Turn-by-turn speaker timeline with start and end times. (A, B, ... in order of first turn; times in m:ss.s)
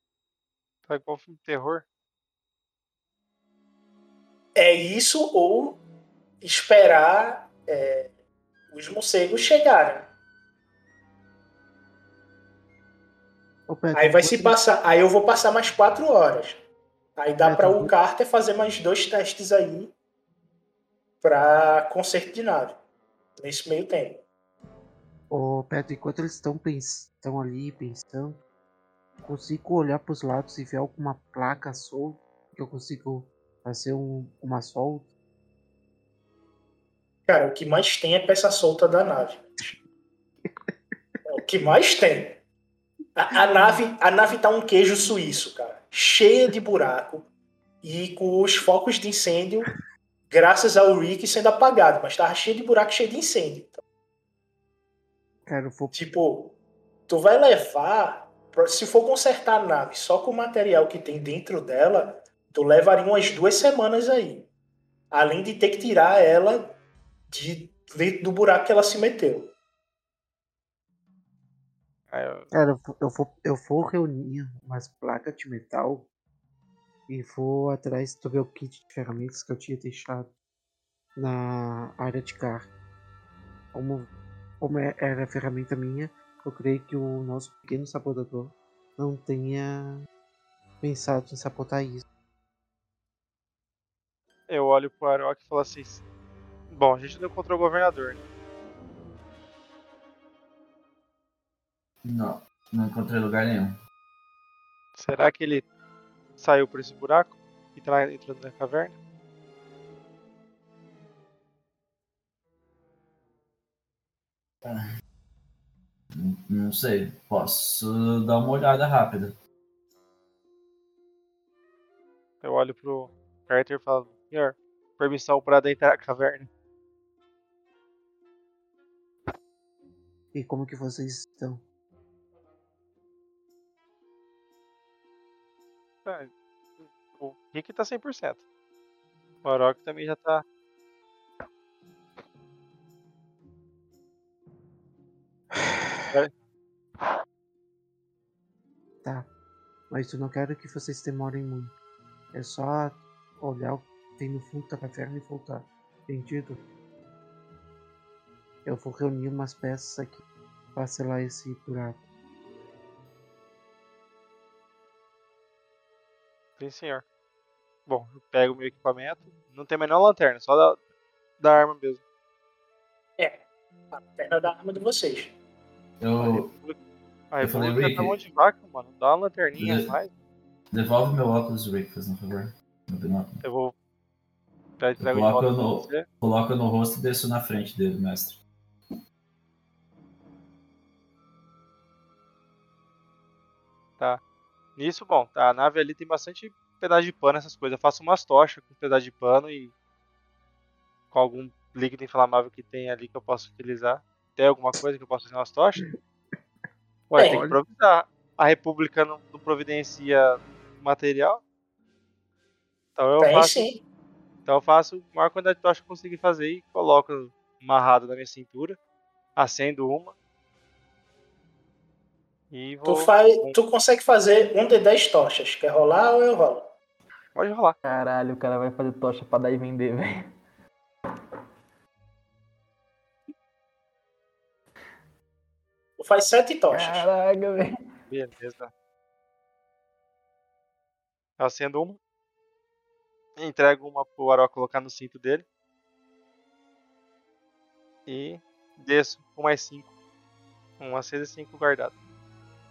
0:00.9-0:01.8 A
0:04.6-0:05.8 B
0:06.4-0:08.1 B
0:08.7-0:10.1 B
0:13.7-0:14.6 C
0:13.9-0:16.6 B
0:17.2-0:19.9 B
0:17.4-0:17.9 C
0:21.2-0:22.8 B
0:23.4-0:24.2 B
0:25.3-0:28.4 C
0:29.2-0:35.1 C
0:37.3-0:39.8 B
0:41.3-0:42.4 B
0:43.1-0:47.3 B
0:43.4-0:43.8 C
0:47.8-0:49.7 B
0:50.3-0:53.8 B
0:55.4-0:55.9 C
0:55.9-0:56.6 B
0:57.1-1:04.5 B
1:05.1-1:06.8 B
1:07.3-1:09.5 B
1:12.1-1:12.5 A
1:12.5-1:16.1 C
1:17.1-1:20.3 C
1:21.2-1:22.7 C
1:23.7-1:24.1 C
1:24.6-1:30.0 C
1:30.8-1:32.0 C
1:34.5-1:36.0 A
1:36.7-1:38.2 A
1:42.0-1:43.8 D
1:45.0-1:45.6 A
1:46.4-1:49.0 A
1:54.6-1:54.9 D
1:56.1-1:59.3 D
2:02.4-2:06.5 A
2:10.3-2:11.6 C
2:16.0-2:18.4 A
2:19.4-2:20.4 A
2:29.9-2:31.7 C
2:32.3-2:36.6 C
2:38.6-2:40.2 C
2:40.7-2:42.0 C
2:46.6-2:47.0 A
2:47.9-2:50.8 A
2:51.4-2:52.0 A
2:53.2-2:55.3 B
2:56.0-2:56.5 D
2:56.2-2:56.8 A
2:57.3-3:00.1 A
2:57.4-2:58.2 D
2:59.6-2:59.9 D
3:00.7-3:03.4 D
3:03.4-3:03.7 A
3:04.8-3:06.0 A
3:05.0-3:08.4 D
3:14.8-3:19.7 A
3:21.1-3:25.8 A
3:27.1-3:31.4 A
3:27.2-3:27.5 B
3:33.0-3:33.7 A
3:33.2-3:33.8 B
3:34.4-3:38.8 A
3:39.4-3:40.1 A
3:42.5-3:43.5 A
3:42.8-3:46.7 B
3:47.3-3:47.8 A
3:47.8-3:50.3 E
3:56.0-3:57.1 B
3:56.7-3:57.7 E
3:58.1-3:58.7 A
4:01.4-4:02.0 A
4:03.4-4:05.4 A
4:08.1-4:09.9 A
4:10.8-4:12.0 A